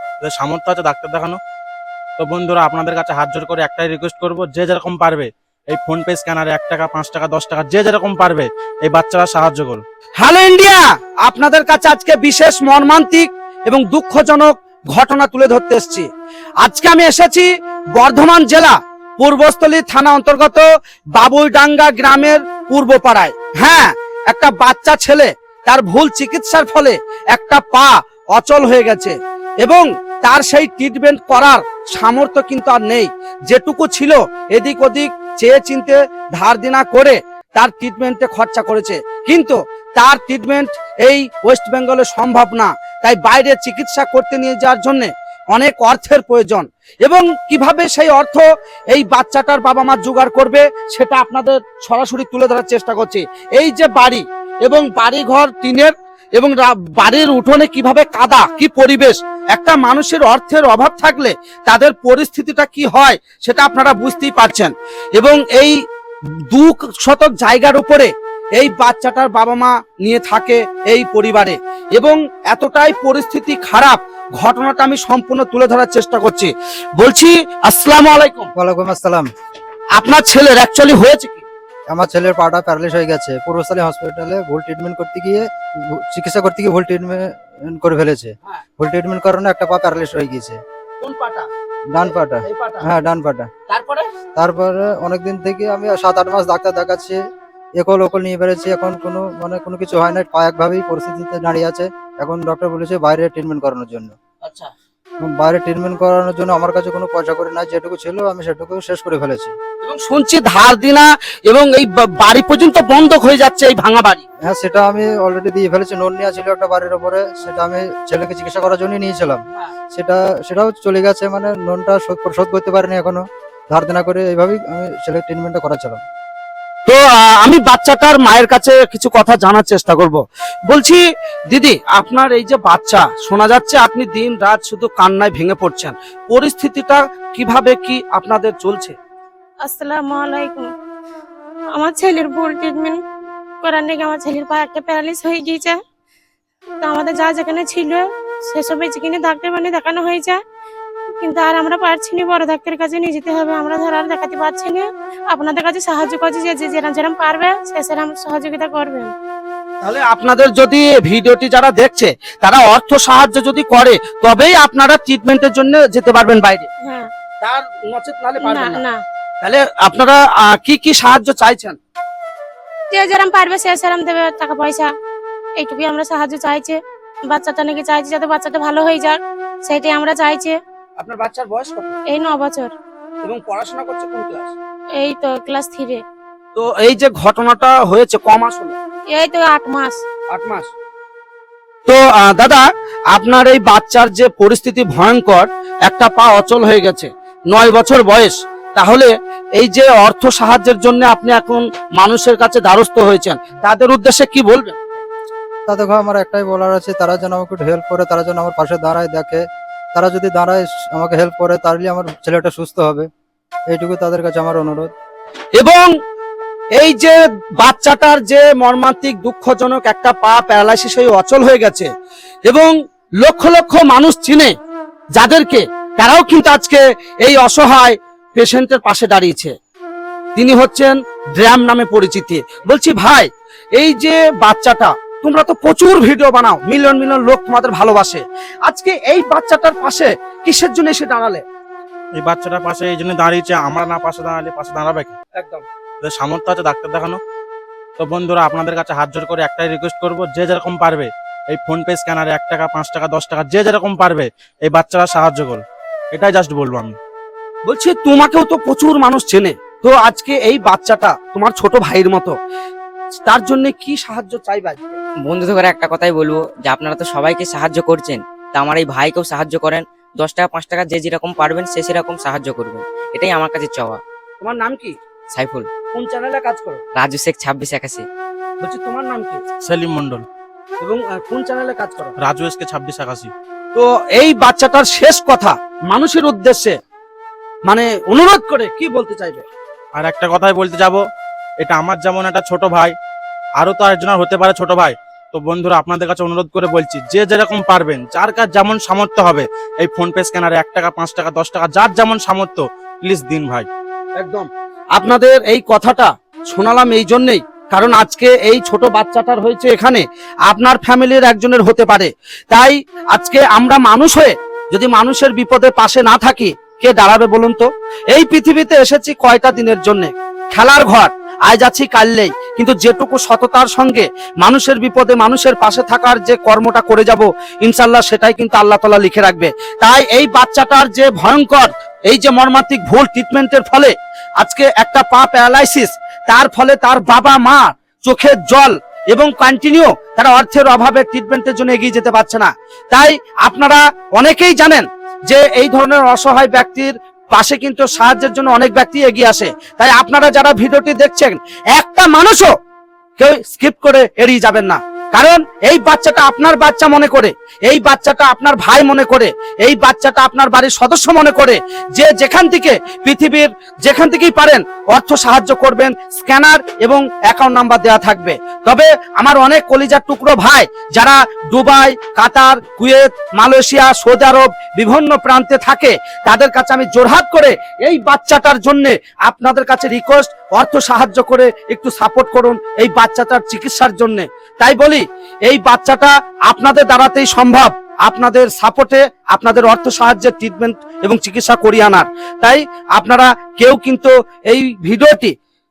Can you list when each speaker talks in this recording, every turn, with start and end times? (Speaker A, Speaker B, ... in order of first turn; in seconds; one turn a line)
Speaker A: 0.2-1.4
Speaker A: 2.2-9.8
Speaker B: 10.2-16.1
Speaker B: 16.6-65.8
Speaker B: 66.5-78.5
Speaker C: 78.5-79.3
Speaker B: 79.9-81.4
Speaker C: 81.9-90.6
Speaker B: 91.0-91.5
Speaker C: 91.9-93.5
Speaker B: 92.0-92.8
Speaker B: 93.7-94.1
Speaker C: 94.4-97.2
Speaker C: 97.8-104.1
Speaker B: 104.4-104.7
Speaker C: 105.3-109.5
Speaker B: 109.8-114.2
Speaker C: 114.5-119.4
Speaker C: 119.9-126.0
Speaker B: 126.9-139.0
Speaker D: 139.7-140.7
Speaker D: 141.8-143.0
Speaker D: 143.6-145.8
Speaker D: 146.8-150.4
Speaker D: 151.1-159.1
Speaker B: 159.8-166.7
Speaker D: 166.8-167.1
Speaker B: 167.4-168.8
Speaker D: 168.4-169.0
Speaker B: 169.4-171.8
Speaker D: 172.9-174.9
Speaker D: 175.6-180.6
Speaker B: 181.0-181.9
Speaker D: 182.1-182.7
Speaker B: 183.2-184.5
Speaker D: 185.0-186.0
Speaker B: 186.6-188.8
Speaker D: 189.1-190.0
Speaker B: 190.3-190.7
Speaker B: 191.9-204.8
Speaker C: 205.7-209.4
Speaker C: 209.9-213.1
Speaker C: 213.7-214.9
Speaker B: 215.6-215.9
Speaker B: 216.7-221.9
Speaker B: 222.5-224.5
Speaker B: 225.2-229.5
Speaker B: 230.3-241.4
Speaker A: 242.2-245.2
Speaker B: 245.4-245.7
Speaker A: 246.0-247.2
Speaker A: 248.0-257.0
Speaker B: 257.6-262.4
Speaker B: 263.2-265.0
Speaker E: 265.2-274.0
Speaker B: 274.4-275.0
Speaker E: 275.3-275.7
Speaker B: 275.9-276.8
Speaker E: 276.9-278.1
Speaker B: 278.6-279.4
Speaker A: 279.6-280.3
Speaker B: 280.8-282.2
Speaker A: 282.2-283.3
Speaker B: 283.7-286.8
Speaker B: 287.7-289.5
Speaker A: 290.0-291.0
Speaker A: 291.6-292.9
Speaker A: 293.6-303.7
Speaker B: 304.2-352.5
Speaker B: 353.2-395.4